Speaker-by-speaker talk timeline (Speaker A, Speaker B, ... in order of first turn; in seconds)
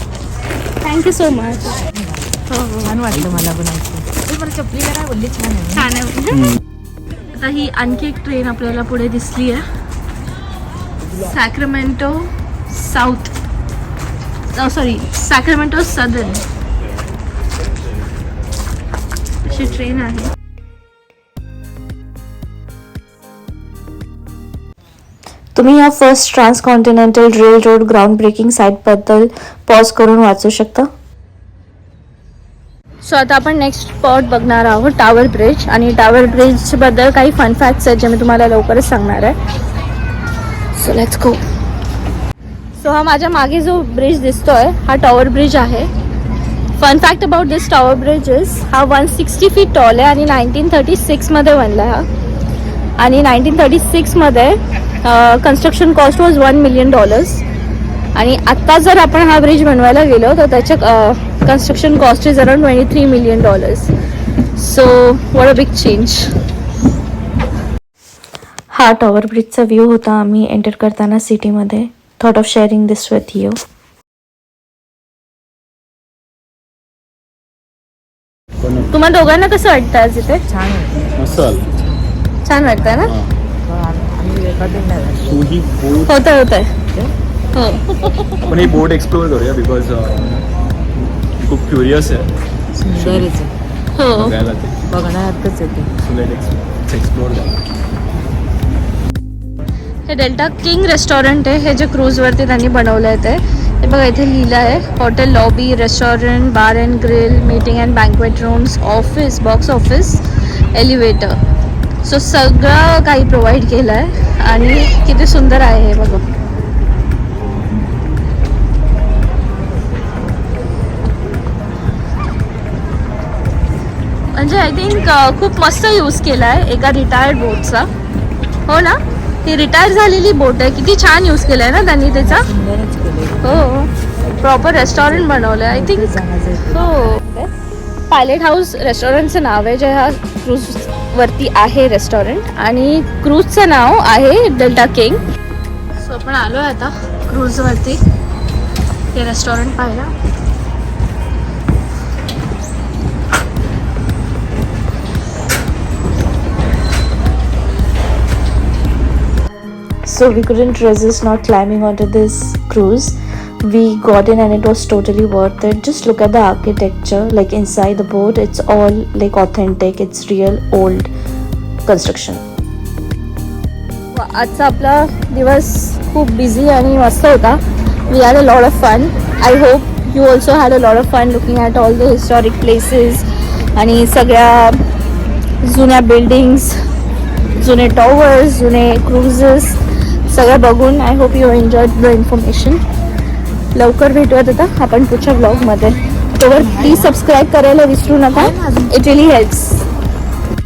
Speaker A: 0.8-1.8, 2.5-3.0, 5.7-6.5, 7.3-9.6, 11.2-13.3, 14.5-16.4, 19.4-20.3, 33.0-39.4, 40.8-41.4, 42.8-45.9, 46.8-52.0, 53.0-57.4, 58.1-63.9, 64.6-66.2, 78.9-80.4, 82.5-83.1, 86.1-86.7, 87.5-88.7, 93.9-94.4, 100.1-110.2, 110.7-111.4, 112.0-116.2, 124.3-127.9, 128.7-132.5, 133.4-137.5, 138.1-145.2, 146.0-148.0, 149.1-150.1, 174.1-183.2, 183.8-184.8, 185.6-186.8, 187.6-192.8, 193.7-199.8
Speaker B: 1.9-2.2, 2.8-5.9, 80.5-81.3, 83.7-85.4, 92.8-93.5, 94.9-95.9, 132.1-133.7, 134.6-136.9, 196.6-197.1, 198.3-198.9
Speaker C: 3.2-3.5, 6.3-6.6, 78.6-78.9, 81.2-81.7, 83.0-83.3, 85.2-86.1, 88.5-90.4, 91.4-92.3, 92.8-93.4, 94.1-94.9, 96.0-97.6
Speaker D: 25.6-30.9, 68.7-73.6, 160.1-171.1, 171.9-172.4